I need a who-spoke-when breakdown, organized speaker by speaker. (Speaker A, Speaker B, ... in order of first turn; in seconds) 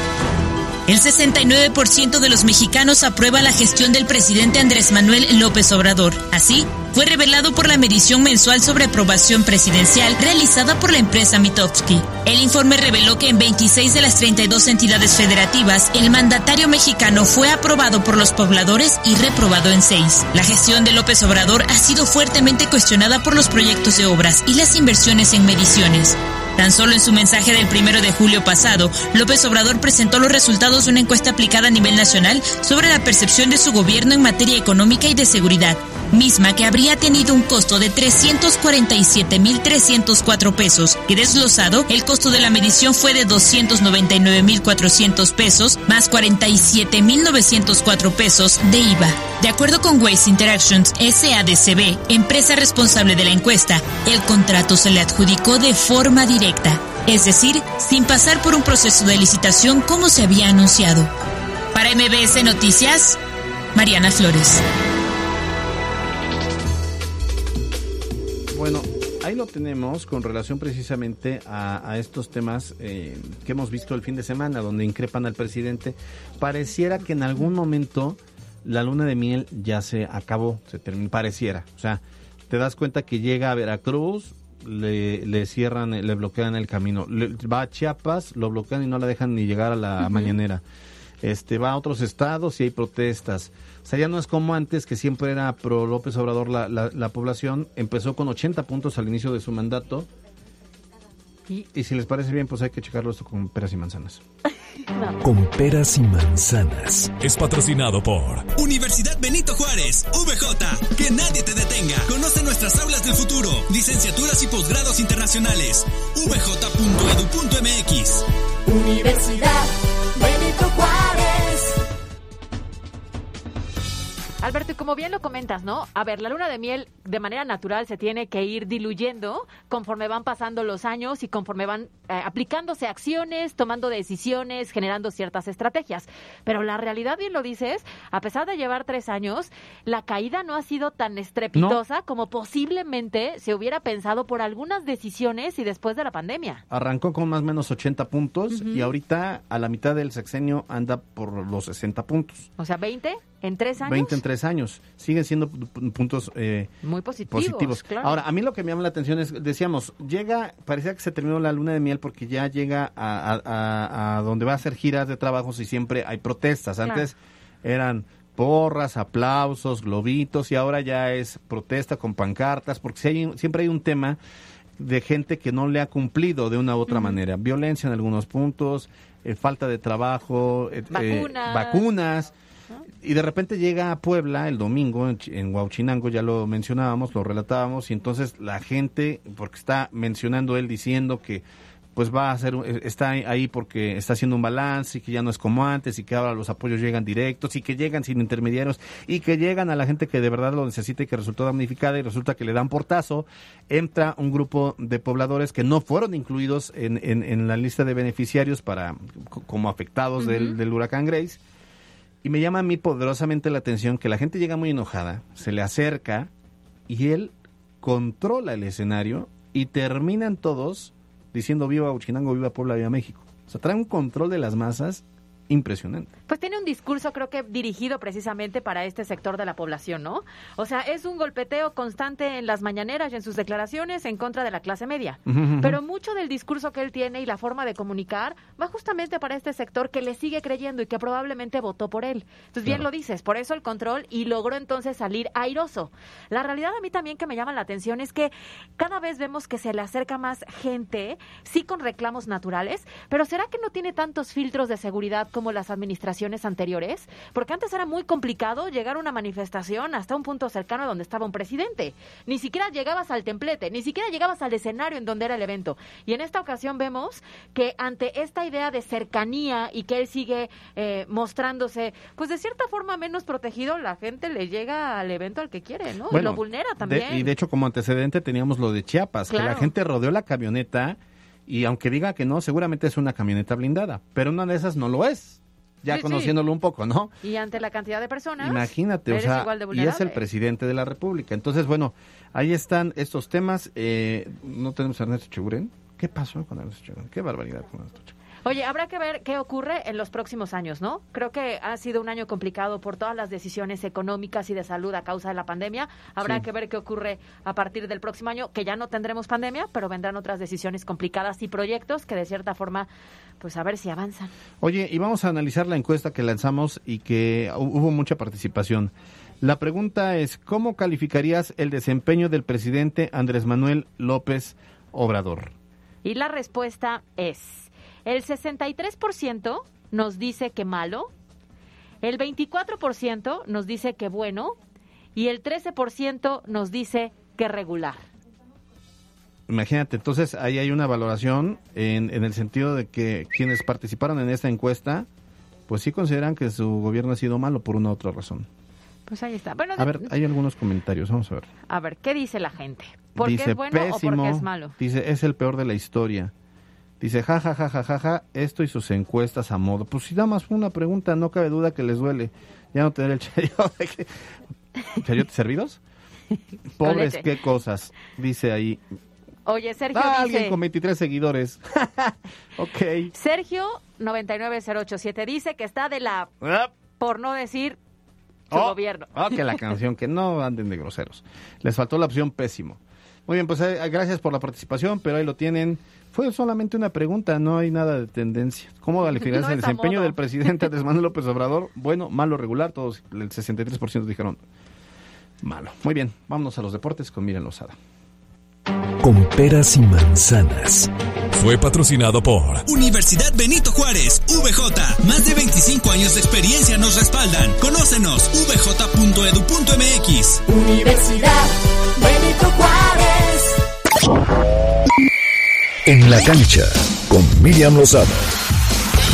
Speaker A: 0.9-61.1, 61.7-63.2, 63.8-64.6
Speaker B: 68.5-90.6, 91.2-100.1, 101.7-104.2, 146.7-152.5, 153.8-156.7, 157.3-174.2, 174.8-182.3, 183.0-191.4, 191.9-211.4, 212.2-216.3, 216.9-226.1, 235.3-235.8, 276.1-287.1, 288.4-298.1, 314.6-325.5, 339.5-345.1, 345.7-348.5, 349.8-351.5, 353.2-356.3, 357.0-364.1, 364.9-365.8, 366.8-368.8, 369.9-373.1, 376.4-376.7, 378.5-394.4, 395.4-397.8
Speaker C: 105.2-107.2, 399.0-400.9, 415.9-418.3
Speaker D: 107.2-108.5, 401.3-402.6
Speaker E: 108.5-118.2, 402.7-410.4
Speaker F: 124.4-146.6, 148.5-148.9, 152.6-154.2, 156.8-158.2, 176.9-177.2, 180.9-181.8, 210.2-210.5, 226.3-277.3, 279.3-279.7, 285.9-286.3, 287.2-290.2, 298.4-312.9, 313.4-314.3, 326.0-331.1, 332.0-334.6, 335.1-338.1, 349.1-350.1, 351.7-354.8, 366.8-367.3, 369.5-370.6, 373.1-376.3, 377.0-377.8, 378.5-379.4, 389.2-390.2